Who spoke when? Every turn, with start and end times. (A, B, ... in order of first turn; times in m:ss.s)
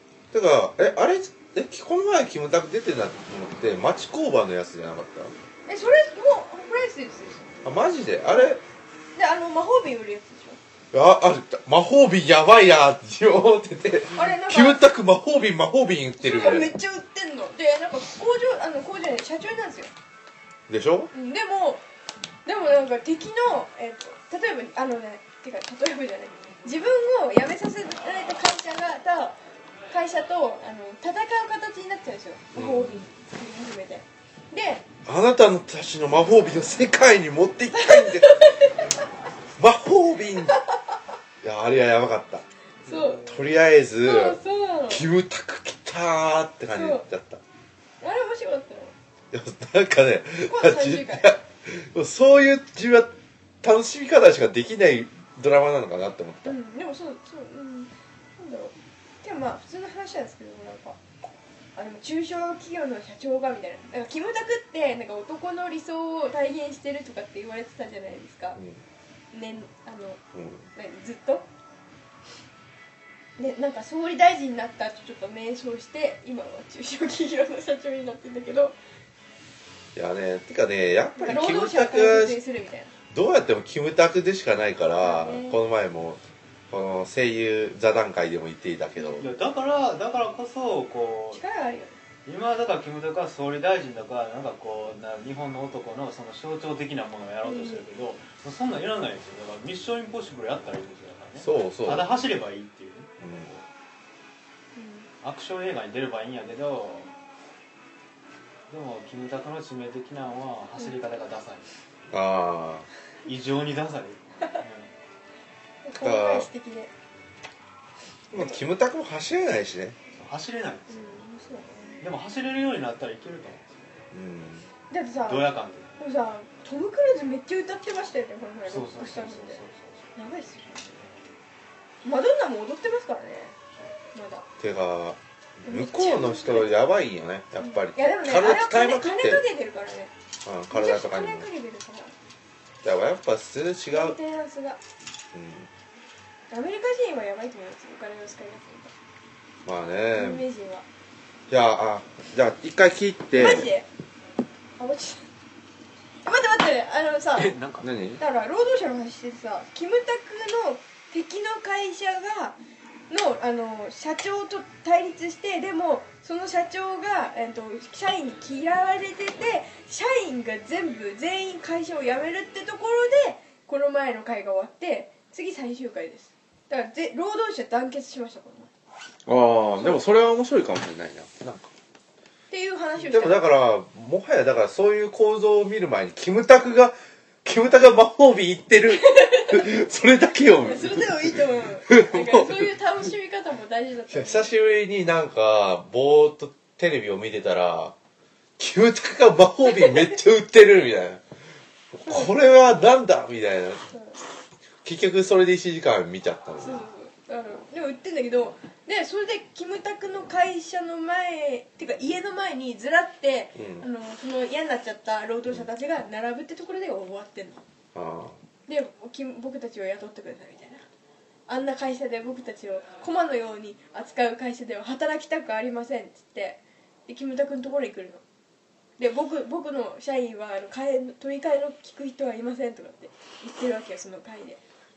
0:00.3-0:05.3 A
0:05.7-0:07.5 B
0:07.6-0:08.6 A
0:09.2-0:10.6 B
0:10.9-0:16.7 A
0:14.1-0:14.8 B
0:16.2-0:19.9 B
0:20.7-0:21.1 A
0:21.1-0:21.8 B
0:22.4-0:29.4 B
0:29.9-0:34.8 B
0:32.5-0:33.0 A
0:35.0-0:38.5 A
0:37.7-0:39.0 B
0:39.6-0:40.6 A
0:40.5-0:41.0 B
0:41.4-0:42.4 A
0:42.8-0:43.3 B
0:42.8-0:43.3 C
0:43.2-0:47.4 A
0:44.0-0:45.0 B
0:46.7-0:47.0 B
0:48.0-0:48.9 B
0:49.3-0:56.6 A
0:50.4-0:51.4 B
0:56.4-1:01.0 B
1:01.7-1:08.6 B
1:09.3-1:10.2 B
1:10.3-1:10.6 A
1:10.7-1:11.5 B
1:13.4-1:18.8 B
1:19.9-1:22.4 A
1:21.2-1:22.9 B
1:23.1-1:29.3 A
1:25.0-1:25.6 B
1:29.2-1:31.4 C
1:31.3-1:32.0 B
1:32.2-1:43.6 C
1:37.4-1:37.8 B
1:41.4-1:42.1 A
1:43.2-1:43.5 A
1:44.8-1:45.1 B
1:45.2-1:47.1 C
1:48.7-1:51.7 C
1:52.1-1:52.9 A
1:53.2-1:54.9 C
1:55.8-1:56.9 B
1:56.0-1:56.5 A
1:58.3-2:00.0 A
1:58.3-1:58.6 B
2:00.2-2:01.0 C
2:00.9-2:02.0 B
2:02.0-2:04.0 C
2:04.1-2:04.7 A
2:04.9-2:09.6 B
2:05.2-2:05.9 C
2:08.7-2:10.1 C
2:10.1-2:11.2 B
2:12.0-2:13.6 B
2:14.1-2:14.4 B
2:14.6-2:19.4 A
2:15.6-2:16.7 B
2:17.6-2:20.1 B
2:20.4-2:21.5 A
2:20.7-2:22.1 B
2:22.8-2:24.2 A
2:23.9-2:24.8 B
2:25.3-2:25.7 A
2:26.5-2:28.9 B
2:29.6-2:30.4 A
2:30.1-2:30.8 B
2:31.5-2:33.7 A
2:33.4-2:33.9 B
2:34.8-2:35.2 B
2:36.2-2:37.6 B
2:37.4-2:37.9 C
2:37.8-2:38.2 A
2:38.2-2:42.6 B
2:43.1-2:58.7 B
2:59.2-3:01.7 A
2:59.8-3:00.0 B
3:02.5-3:03.4 B
3:03.0-3:12.7 A
3:09.0-3:09.7 B
3:10.6-3:14.5 B
3:14.1-3:17.9 A
3:18.6-3:21.2 A
3:21.9-3:23.9 A
3:23.9-3:24.2 B
3:24.8-3:26.8 A
3:26.6-3:37.6 B
3:33.5-3:33.8 A
3:37.9-3:38.4 A
3:38.7-3:40.8 B
3:41.5-3:48.2 B
3:49.0-3:54.6 B